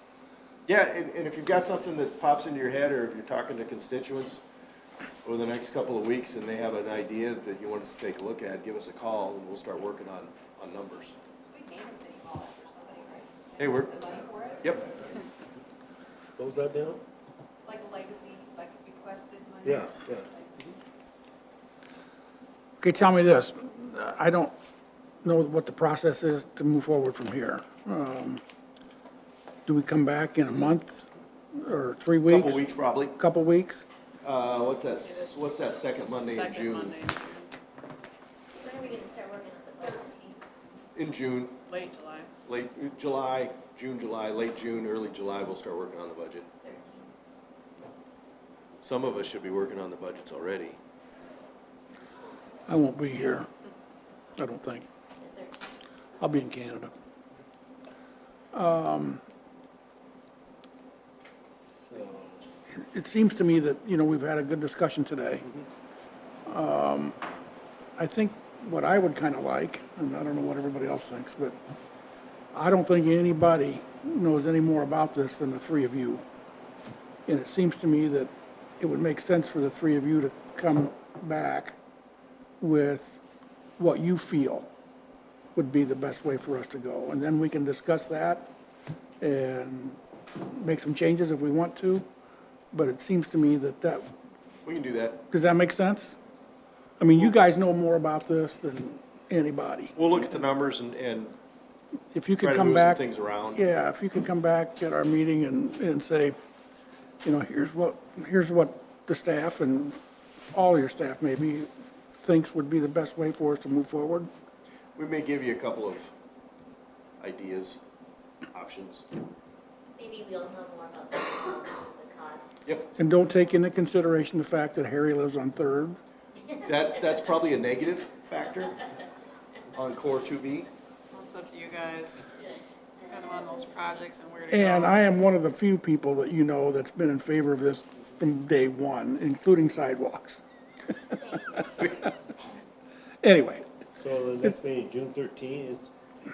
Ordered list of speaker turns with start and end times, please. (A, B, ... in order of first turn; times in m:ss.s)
0:00.7-0:04.4 A
0:05.2-0:11.1 A
0:11.5-0:14.7 B
0:13.6-0:14.0 A
0:14.6-0:14.8 A
0:16.4-0:17.0 C
0:17.6-0:20.6 B
0:19.7-0:20.8 C
0:22.8-0:24.5 D
0:25.2-0:28.4 D
0:29.7-0:32.6 D
0:32.2-0:33.2 A
0:33.2-0:33.8 D
0:34.2-0:37.0 A
0:35.0-0:35.7 E
0:36.2-0:37.5 E
0:38.5-0:40.5 F
0:40.9-0:41.6 A
0:41.7-0:42.3 E
0:42.4-0:46.5 A
0:46.6-0:47.1 F
0:48.8-0:50.8 A
0:52.7-0:53.5 D
0:54.4-0:54.8 D
0:55.2-0:55.8 F
0:56.2-0:56.9 D
0:58.5-0:59.2 D
1:01.9-1:02.4 C
1:02.7-1:05.4 D
1:06.5-1:07.2 D
1:08.0-1:11.6 D
1:12.5-1:16.2 D
1:17.2-1:21.8 D
1:22.6-1:23.2 D
1:23.8-1:24.7 D
1:25.5-1:28.5 D
1:29.2-1:32.1 D
1:32.7-1:34.1 D
1:34.6-1:35.2 A
1:35.3-1:36.2 D
1:37.0-1:40.1 D
1:40.0-1:41.3 A
1:42.1-1:46.3 D
1:42.4-1:43.6 A
1:47.2-1:50.0 D
1:50.5-1:51.7 D
1:52.2-1:54.3 D
1:55.0-1:56.1 A
1:57.2-1:57.8 A
1:58.5-1:59.1 A
2:00.0-2:02.5 F
2:03.0-2:06.0 D
2:06.6-2:08.8 A
2:09.7-2:10.7 A
2:11.1-2:12.3 E
2:12.4-2:13.8 F
2:13.1-2:15.0 E
2:14.5-2:20.4 D
2:21.1-2:22.2 F
2:23.2-2:23.7 D
2:24.0-2:25.9 C